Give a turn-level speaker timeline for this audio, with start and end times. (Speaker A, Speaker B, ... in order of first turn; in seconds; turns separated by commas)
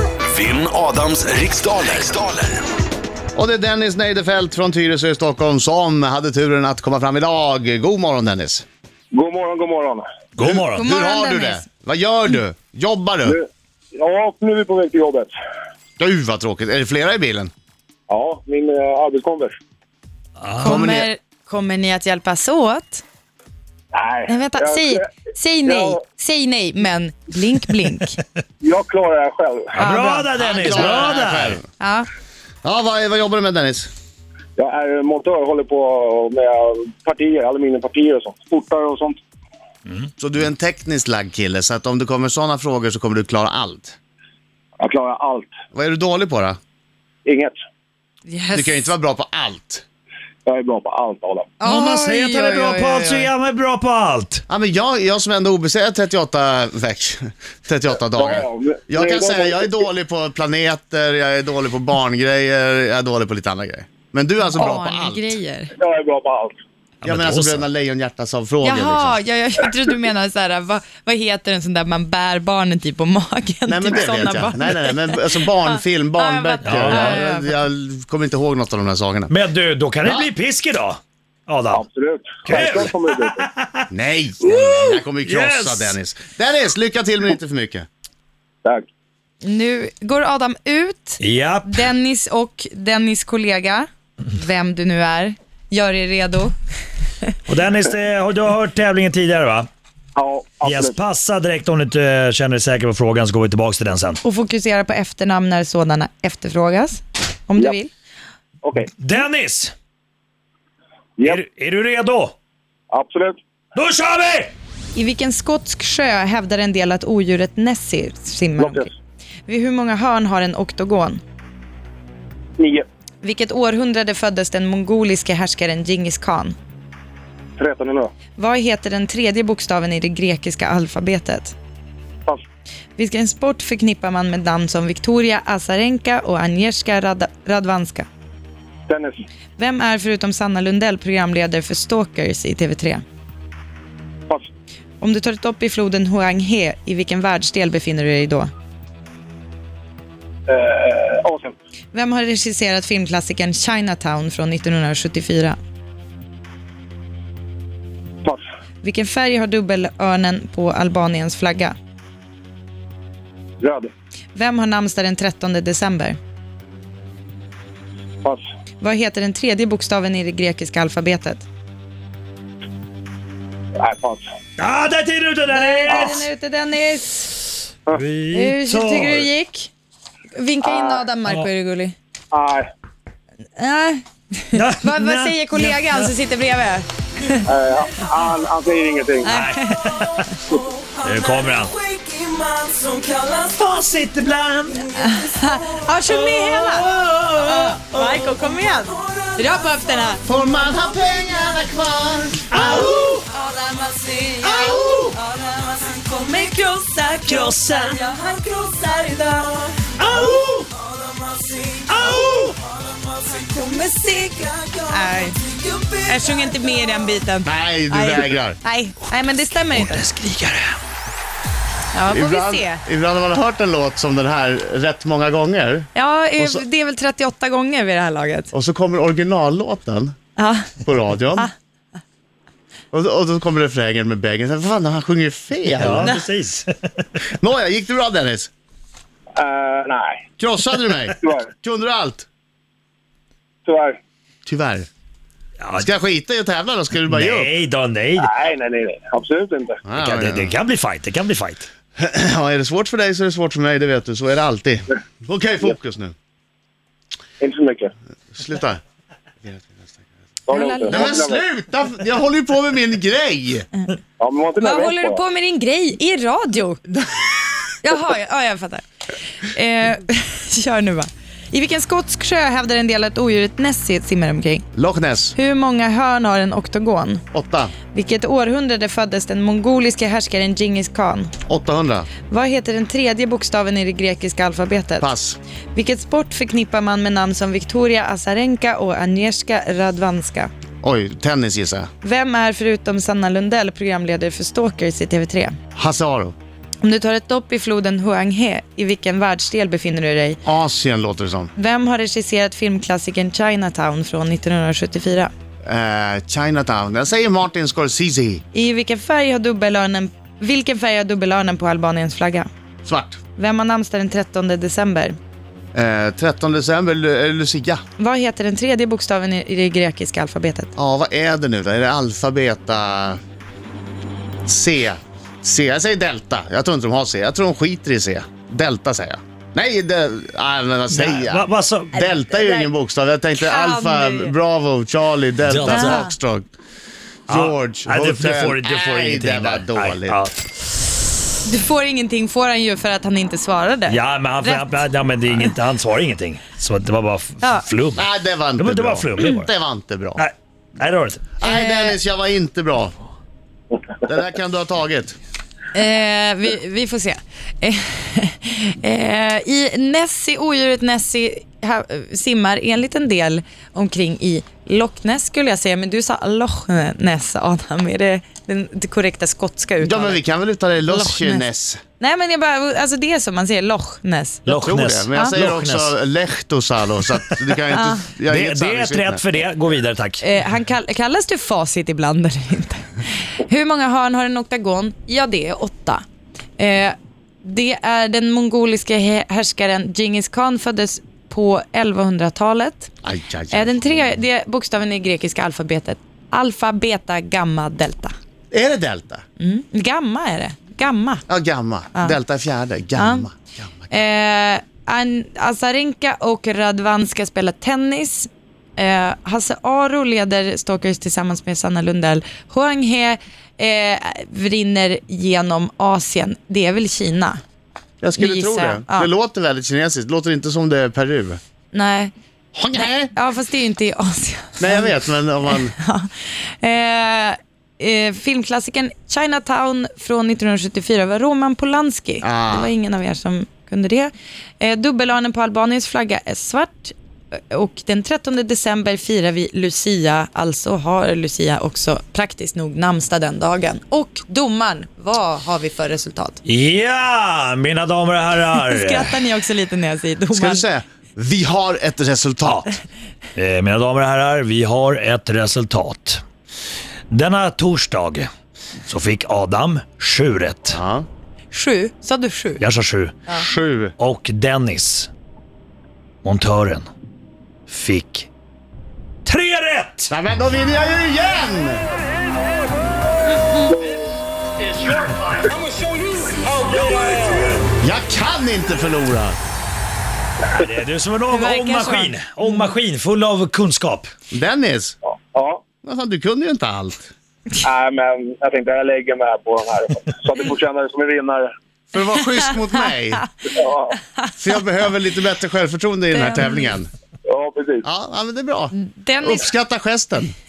Speaker A: 0.3-2.4, Speaker B: 3.4-8.7, Speaker C: 9.1-10.1, Speaker D: 10.4-10.8, Speaker B: 10.4-13.4, Speaker E: 10.8-11.7, Speaker C: 13.2-15.3, Speaker B: 16.0-17.5, Speaker C: 18.1-19.6, Speaker D: 20.4-20.9, Speaker B: 20.6-21.1, Speaker E: 20.6-23.0, Speaker C: 23.9-25.1, Speaker E: 24.3-28.2, Speaker C: 25.6-26.0, Speaker C: 28.6-29.8, Speaker D: 29.8-31.6, Speaker E: 29.8-30.3, Speaker B: 30.4-31.6, Speaker E: 31.8-32.1, Speaker B: 32.6-33.9, Speaker C: 34.6-39.2, Speaker B: 40.2-44.0, Speaker C: 44.8-45.5, Speaker B: 45.7-46.6, Speaker C: 47.2-47.5, Speaker E: 48.3-48.9, Speaker B: 48.5-49.8, Speaker C: 50.5-51.5, Speaker E: 51.6-53.3, Speaker D: 51.6-54.4, Speaker B: 54.5-65.4, Speaker C: 58.1-59.7, Speaker E: 64.5-65.7, Speaker C: 65.8-66.6, Speaker D: 67.0-67.7, Speaker B: 67.0-69.2, Speaker E: 68.6-75.2, Speaker B: 73.7-79.3, Speaker E: 75.8-77.5, Speaker D: 76.6-77.2, Speaker D: 79.3-81.8, Speaker C: 81.7-83.5, Speaker D: 82.4-83.8, Speaker B: 83.9-87.9, Speaker D: 84.4-86.0, Speaker E: 89.4-96.5, Speaker D: 91.2-91.9, Speaker D: 97.5-99.7, Speaker C: 100.2-101.0, Speaker D: 100.6-104.2, Speaker E: 104.2-107.9, Speaker C: 108.6-108.9, Speaker D: 109.0-109.7, Speaker D: 111.2-112.3, Speaker C: 112.9-113.4, Speaker D: 113.8-114.5, Speaker E: 114.9-118.9, Speaker C: 118.6-118.9, Speaker E: 119.5-121.2, Speaker C: 122.6-122.9, Speaker E: 123.2-126.6, Speaker C: 127.6-128.1, Speaker E: 128.4-131.6, Speaker E: 133.0-138.1, Speaker C: 138.9-139.2, Speaker E: 139.6-143.0, Speaker E: 145.0-148.5, Speaker C: 150.5-151.6, Speaker E: 151.9-155.6, Speaker E: 158.8-161.8, Speaker C: 163.6-163.9, Speaker E: 164.3-166.2, Speaker E: 168.8-171.5, Speaker C: 173.8-174.3, Speaker D: 174.6-176.3, Speaker E: 175.5-177.3, Speaker C: 175.9-176.2, Speaker D: 177.9-179.3, Speaker E: 178.3-179.7, Speaker E: 180.3-181.9, Speaker C: 180.6-181.0, Speaker C: 182.3-182.7, Speaker E: 183.6-187.4, Speaker D: 184.5-186.1, Speaker C: 187.5-189.3, Speaker E: 189.2-190.0, Speaker D: 189.3-190.4, Speaker D: 191.0-191.8, Speaker D: 193.1-195.1, Speaker E: 194.9-200.2, Speaker D: 195.9-198.3, Speaker B: 200.2-203.2, Speaker D: 202.5-203.2, Speaker E: 202.8-209.8, Speaker B: 204.5-205.1, Speaker D: 207.2-208.0, Speaker D: 210.0-210.7, Speaker D: 211.9-212.6, Speaker E: 213.6-220.1, Speaker B: 217.4-218.6, Speaker D: 219.7-220.8, Speaker E: 221.9-222.8, Speaker B: 222.1-226.7, Speaker E: 225.9-228.5, Speaker B: 228.5-230.2, Speaker E: 230.4-230.7, Speaker B: 230.8-231.5, Speaker B: 232.9-236.1, Speaker D: 235.7-237.2, Speaker B: 237.3-238.5, Speaker C: 239.4-240.2, Speaker B: 240.4-242.3, Speaker C: 241.2-241.5, Speaker C: 243.7-244.0, Speaker B: 244.5-244.9, Speaker D: 245.6-245.9, Speaker B: 245.8-247.5, Speaker D: 247.1-248.3, Speaker C: 248.2-249.8, Speaker B: 249.8-250.6, Speaker D: 250.0-251.7, Speaker B: 252.0-256.1, Speaker C: 257.4-257.9, Speaker B: 258.3-258.8, Speaker B: 259.4-260.0, Speaker C: 260.5-261.4, Speaker E: 260.5-261.2, Speaker B: 260.9-263.7, Speaker C: 264.2-265.2, Speaker E: 264.6-266.8, Speaker E: 267.8-268.8, Speaker E: 269.5-274.7, Speaker B: 274.8-275.4, Speaker E: 275.4-277.2, Speaker B: 277.3-277.8, Speaker E: 277.9-281.3, Speaker B: 281.5-282.1, Speaker E: 282.3-285.1, Speaker B: 285.0-285.4, Speaker E: 285.7-290.5, Speaker B: 290.8-291.9, Speaker E: 292.0-295.6, Speaker B: 295.8-296.4, Speaker E: 296.8-300.4, Speaker B: 300.4-301.5, Speaker E: 301.6-305.3, Speaker B: 305.6-308.4, Speaker E: 308.5-312.5, Speaker B: 312.9-313.2, Speaker E: 313.4-315.2, Speaker B: 315.7-317.8, Speaker E: 318.0-320.7, Speaker B: 320.8-323.2, Speaker B: 324.5-336.5, Speaker D: 330.9-332.1, Speaker E: 332.0-332.7, Speaker E: 333.4-334.3, Speaker D: 335.5-336.1, Speaker E: 335.7-336.1, Speaker B: 337.3-340.2, Speaker D: 337.3-340.4, Speaker E: 341.4-344.9, Speaker D: 343.9-349.5, Speaker B: 348.0-350.2, Speaker D: 350.2-351.3, Speaker B: 351.4-352.9, Speaker E: 351.4-352.0, Speaker B: 354.0-355.2, Speaker E: 355.7-370.2, Speaker B: 369.8-371.8, Speaker E: 370.9-371.4, Speaker E: 372.0-374.5, Speaker D: 374.5-375.9, Speaker B: 374.5-379.2, Speaker E: 377.7-378.1, Speaker D: 378.3-380.3, Speaker E: 380.2-382.9, Speaker E: 383.4-386.0, Speaker E: 386.6-392.9, Speaker B: 393.0-394.1, Speaker E: 393.5-398.1, Speaker B: 398.5-399.2, Speaker E: 399.4-401.2, Speaker B: 401.3-403.9, Speaker E: 403.0-403.3, Speaker E: 403.9-417.4, Speaker B: 418.0-421.4, Speaker E: 418.2-419.1, Speaker E: 421.7-422.1, Speaker B: 422.5-423.1, Speaker E: 422.7-424.9, Speaker B: 424.6-425.8, Speaker E: 425.4-436.9, Speaker B: 432.2-432.7, Speaker E: 437.5-446.4, Speaker D: 446.4-449.1, Speaker E: 448.6-450.7, Speaker B: 450.3-452.7, Speaker D: 453.4-456.2, Speaker D: 457.1-458.3, Speaker D: 458.9-460.8, Speaker B: 460.7-461.1, Speaker E: 461.5-462.6, Speaker D: 462.6-463.3, Speaker B: 463.3-463.9, Speaker D: 464.0-465.1, Speaker D: 466.2-466.9, Speaker D: 467.7-468.3, Speaker D: 469.2-470.1, Speaker B: 470.1-471.9, Speaker D: 476.9-477.3, Speaker B: 477.8-479.4, Speaker D: 480.5-484.1, Speaker E: 481.3-482.7, Speaker B: 484.3-485.0, Speaker C: 485.1-485.6, Speaker B: 485.8-487.1, Speaker C: 487.6-491.5, Speaker B: 491.9-493.3, Speaker C: 493.4-494.0, Speaker B: 494.4-496.9, Speaker E: 496.1-496.8, Speaker C: 497.3-497.9, Speaker B: 497.8-500.3, Speaker E: 498.7-499.5